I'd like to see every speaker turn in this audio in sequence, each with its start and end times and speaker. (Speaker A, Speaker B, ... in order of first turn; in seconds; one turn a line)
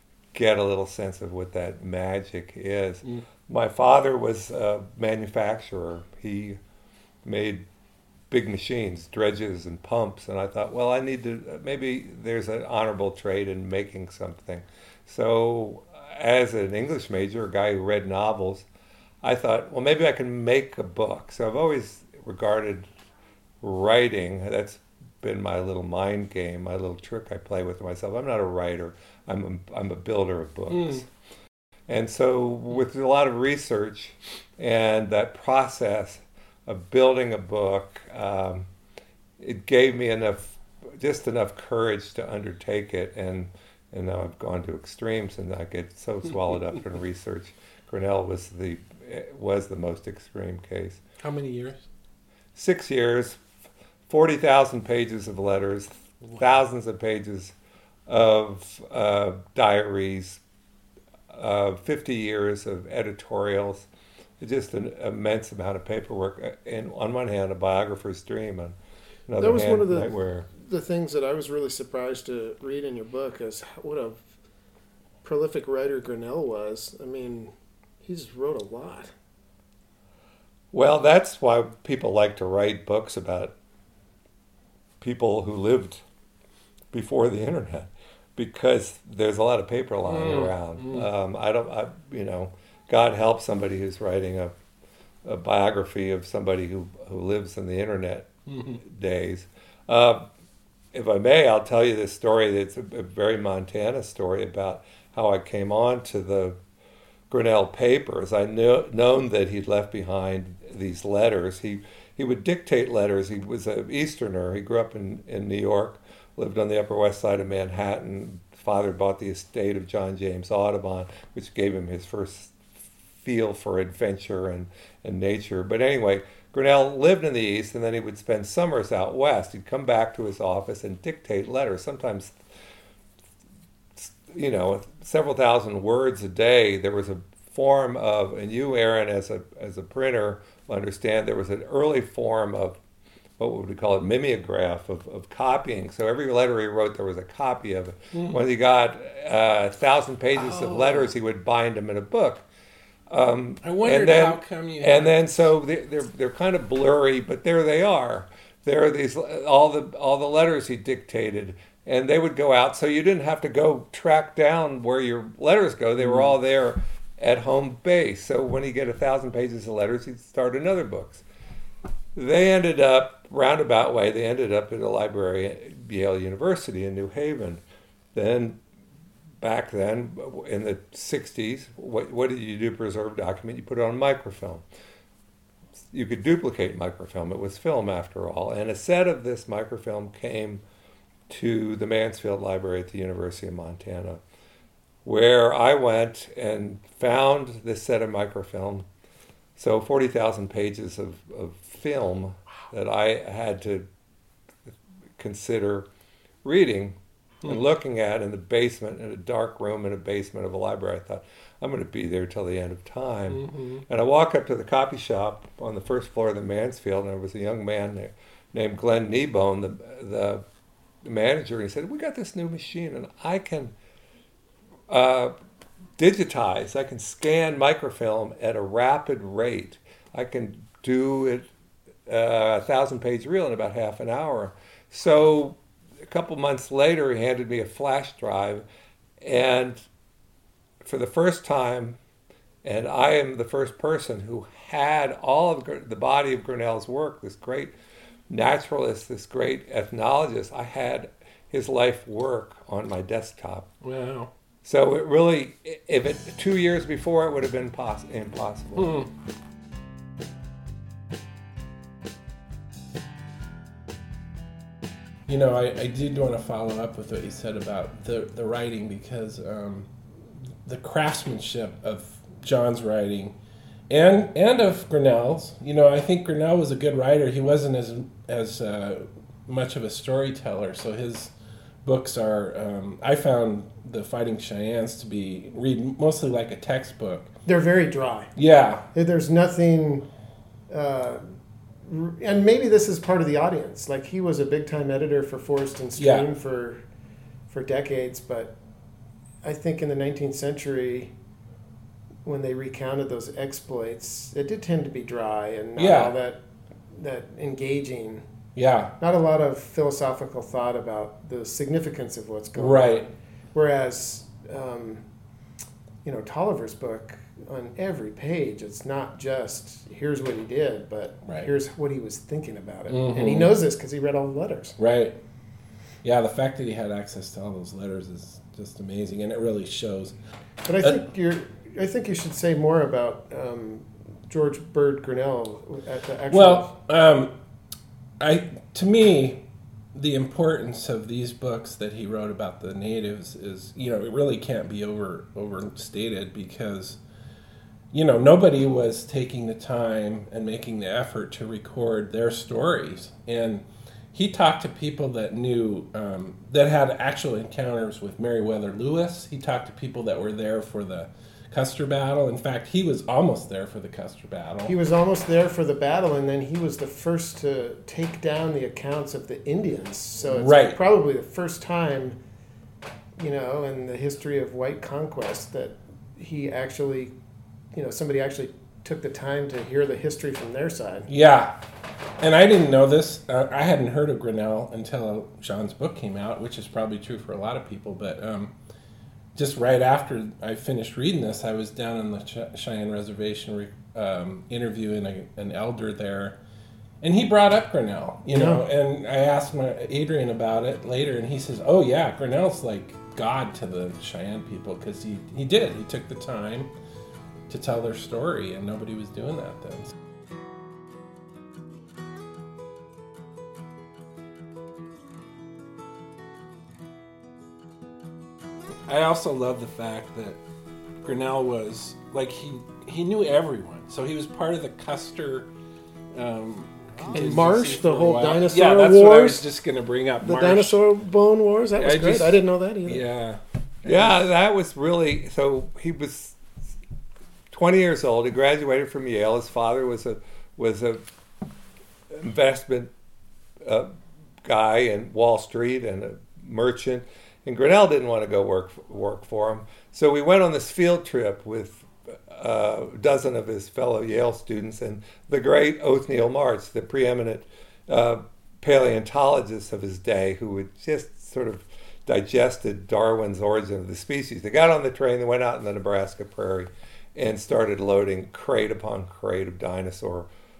Speaker A: 0.3-6.6
Speaker A: 7.2-7.6
Speaker A: 8.3-18.7
Speaker A: 19.2-22.9
Speaker A: 23.6-31.1
Speaker B: 30.7-31.0
Speaker A: 31.9-38.7
Speaker A: 39.4-51.0
Speaker B: 51.2-51.8
Speaker A: 52.5-53.4
Speaker A: 54.1-57.5
Speaker A: 58.1-60.4
Speaker A: 61.3-63.9
Speaker A: 64.4-68.8
Speaker A: 69.3-70.5
Speaker C: 69.4-74.3
Speaker C: 75.2-79.1
Speaker A: 80.7-83.5
Speaker A: 85.0-86.0
Speaker A: 86.9-94.5
Speaker B: 90.1-91.1
Speaker A: 95.2-100.3
Speaker B: 98.5-98.8
Speaker A: 100.9-106.6
Speaker A: 107.3-132.3
Speaker A: 133.9-142.8
Speaker A: 143.4-152.4
Speaker B: 148.1-148.4
Speaker B: 150.3-151.1
Speaker A: 153.1-171.2
Speaker B: 153.6-155.2
Speaker B: 166.0-166.3
Speaker A: 172.1-177.6
Speaker A: 178.1-178.6
Speaker A: 179.4-184.6
Speaker A: 185.9-190.6
Speaker A: 191.3-194.2
Speaker A: 195.0-198.8
Speaker A: 199.6-203.9
Speaker A: 205.2-205.9
Speaker A: 206.4-220.4
Speaker B: 213.3-213.8
Speaker A: 221.0-223.7
Speaker A: 224.9-225.3
Speaker A: 226.0-231.5
Speaker A: 232.1-238.7
Speaker A: 239.2-239.8
Speaker A: 240.8-242.0
Speaker A: 242.6-247.7
Speaker A: 248.3-253.7
Speaker B: 253.8-254.3
Speaker A: 254.6-258.9
Speaker B: 258.8-259.1
Speaker B: 265.3-269.9
Speaker B: 270.6-273.3
Speaker B: 273.9-281.3
Speaker B: 281.8-287.3
Speaker C: 287.4-288.3
Speaker B: 288.4-288.9
Speaker C: 288.9-290.1
Speaker C: 290.7-291.2
Speaker C: 291.8-296.8
Speaker B: 296.0-296.3
Speaker C: 297.5-298.6
Speaker C: 299.4-301.1
Speaker C: 302.2-308.2
Speaker B: 305.8-306.1
Speaker B: 308.6-308.9
Speaker C: 309.0-315.0
Speaker B: 312.6-313.1
Speaker C: 316.0-324.8
Speaker B: 322.9-323.6
Speaker B: 324.8-325.2
Speaker B: 326.0-330.1
Speaker C: 330.6-336.7
Speaker B: 336.3-337.3
Speaker B: 338.2-347.0
Speaker B: 347.9-364.8
Speaker C: 364.7-372.2
Speaker B: 370.3-370.8
Speaker C: 373.2-377.1
Speaker C: 377.7-381.1
Speaker B: 381.1-381.6
Speaker B: 382.2-388.5
Speaker B: 389.4-396.4
Speaker B: 397.0-406.7
Speaker C: 398.3-398.6
Speaker B: 407.5-409.9
Speaker B: 418.9-420.4
Speaker B: 421.0-425.5
Speaker B: 426.1-430.8
Speaker C: 427.1-429.4
Speaker C: 430.2-433.0
Speaker B: 431.8-434.2
Speaker A: 433.8-436.4
Speaker A: 437.5-441.0
Speaker A: 442.1-442.9
Speaker A: 443.6-443.9
Speaker A: 444.4-470.3